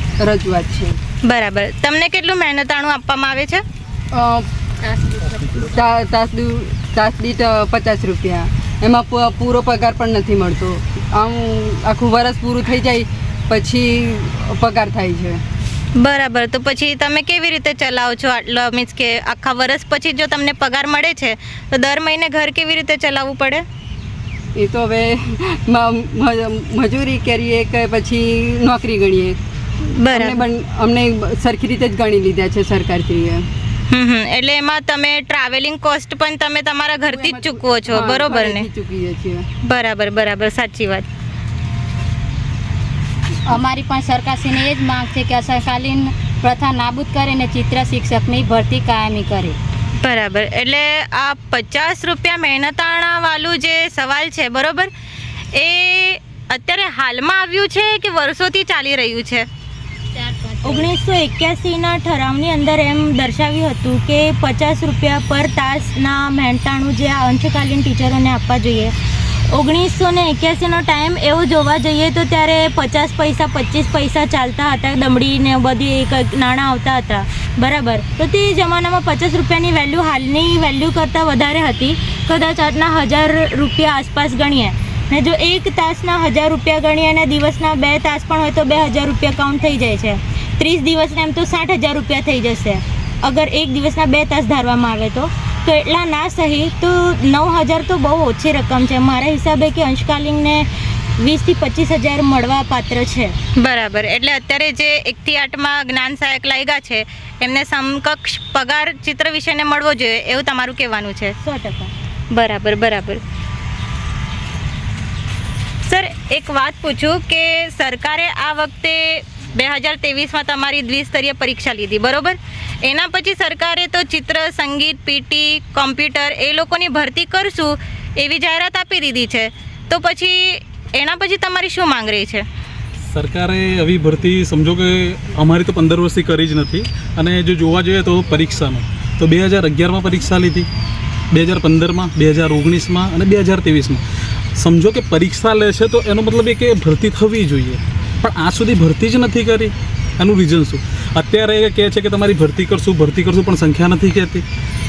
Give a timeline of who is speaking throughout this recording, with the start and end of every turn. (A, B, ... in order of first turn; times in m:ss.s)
0:00.2-0:01.0 A
0:01.3-0:03.6 B
0:04.1-0:04.4 A
0:05.6-0:15.4 A
0:16.0-0:23.6 B
0:24.6-0:25.1 A
0:25.7-0:29.4 A
0:30.0-0:30.4 B
0:30.0-0:33.4 A
0:33.9-0:38.7 B
0:37.1-0:39.4 A
0:39.7-0:41.1 B
0:43.5-0:49.6 C
0:50.0-0:54.9 B
0:55.5-0:59.4 B
1:00.6-1:08.9 D
1:09.5-1:40.6 D
1:41.2-1:43.4 D
1:43.6-1:51.4 B
1:51.4-1:51.9 D
1:52.3-1:53.2 B
1:55.9-2:10.4 B
2:11.0-2:12.4 B
2:13.1-2:20.7 E
2:21.3-2:24.0 E
2:24.6-2:34.4 E